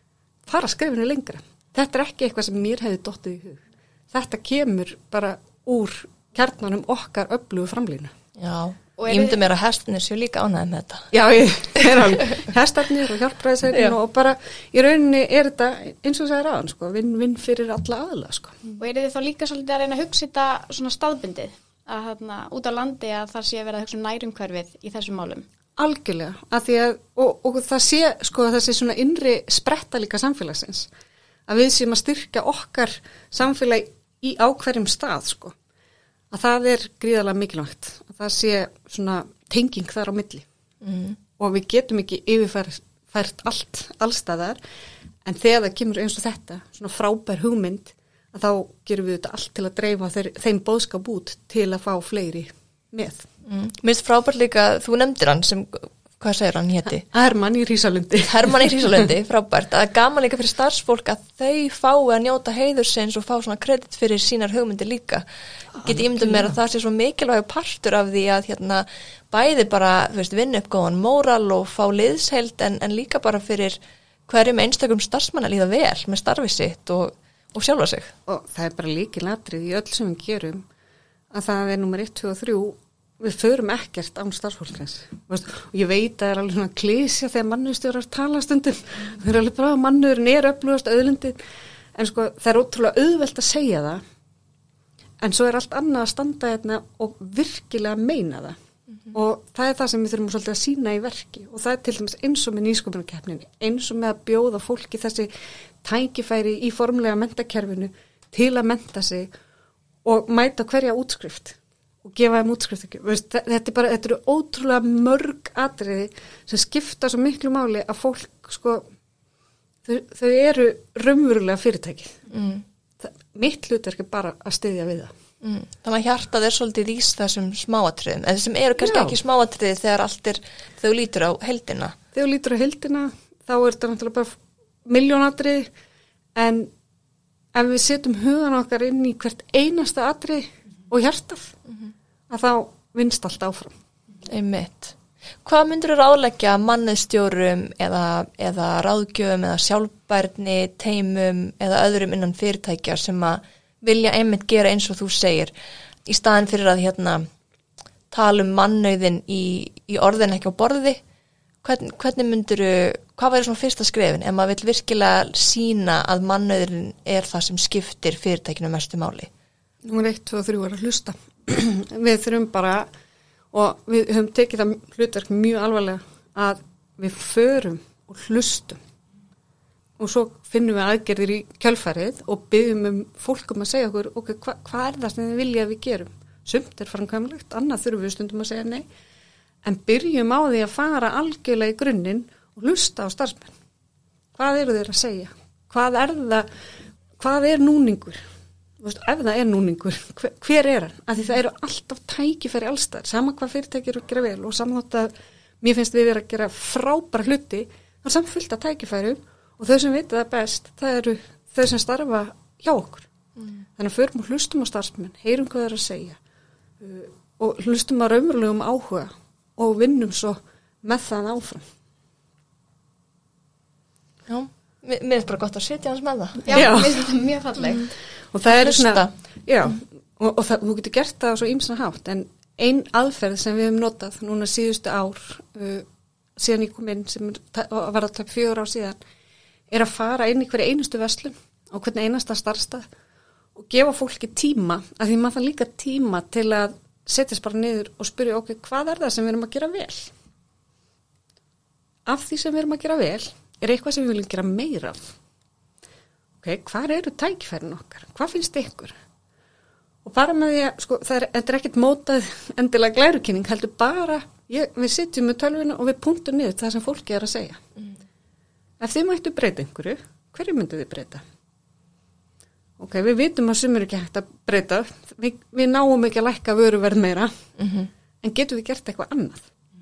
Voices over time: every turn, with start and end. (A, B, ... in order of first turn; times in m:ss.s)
0:00.4-0:08.1 A
0:08.4-0:11.1 B
0:09.0-0:09.4 C
0:11.1-0:18.6 A
0:18.8-0:25.4 C
0:25.8-0:30.9 A
0:31.5-0:35.5 A
0:36.3-0:40.4 A
0:40.8-0:41.2 B
0:41.4-0:44.6 A
0:45.2-0:53.3 A
0:53.4-0:57.0 B
0:57.1-0:59.1 A
0:58.2-1:05.2 B
1:05.8-1:06.5 A
1:05.8-1:18.1 B
1:18.3-1:20.6 A
1:21.3-1:31.4 A
1:32.0-1:34.0 A
1:35.2-1:38.6 A
1:39.1-1:45.3 A
1:45.8-1:49.3 A
1:50.0-1:58.8 A
1:59.8-2:02.2 A
2:02.3-2:02.6 B
2:03.0-2:05.1 A
2:05.4-2:12.0 B
2:08.8-2:09.1 A
2:12.1-2:15.7 A
2:16.4-2:16.7 A
2:17.5-2:21.6 A
2:22.3-2:23.7 A
2:24.3-2:35.5 B
2:36.0-2:37.2 B
2:38.1-2:41.0 B
2:41.6-2:49.3 B
2:49.8-2:52.9 A
2:53.5-2:58.8 A
3:00.0-3:08.8 A
3:09.6-3:13.5 A
3:14.4-3:16.5 A
3:17.2-3:18.2 A
3:18.8-3:33.1 A
3:33.8-3:36.2 A
3:36.8-3:41.6 A
3:44.3-3:46.8 B
3:46.5-3:47.9 C
3:46.5-3:47.0 A
3:48.3-3:59.0 A
3:48.4-3:49.1 B
3:59.7-4:02.9 A
4:03.6-4:10.1 A
4:12.0-4:15.0 A
4:16.4-4:18.9 A
4:20.0-4:27.6 A
4:28.8-4:31.2 A
4:32.8-4:37.3 A
4:37.6-4:37.9 B
4:38.2-4:39.5 A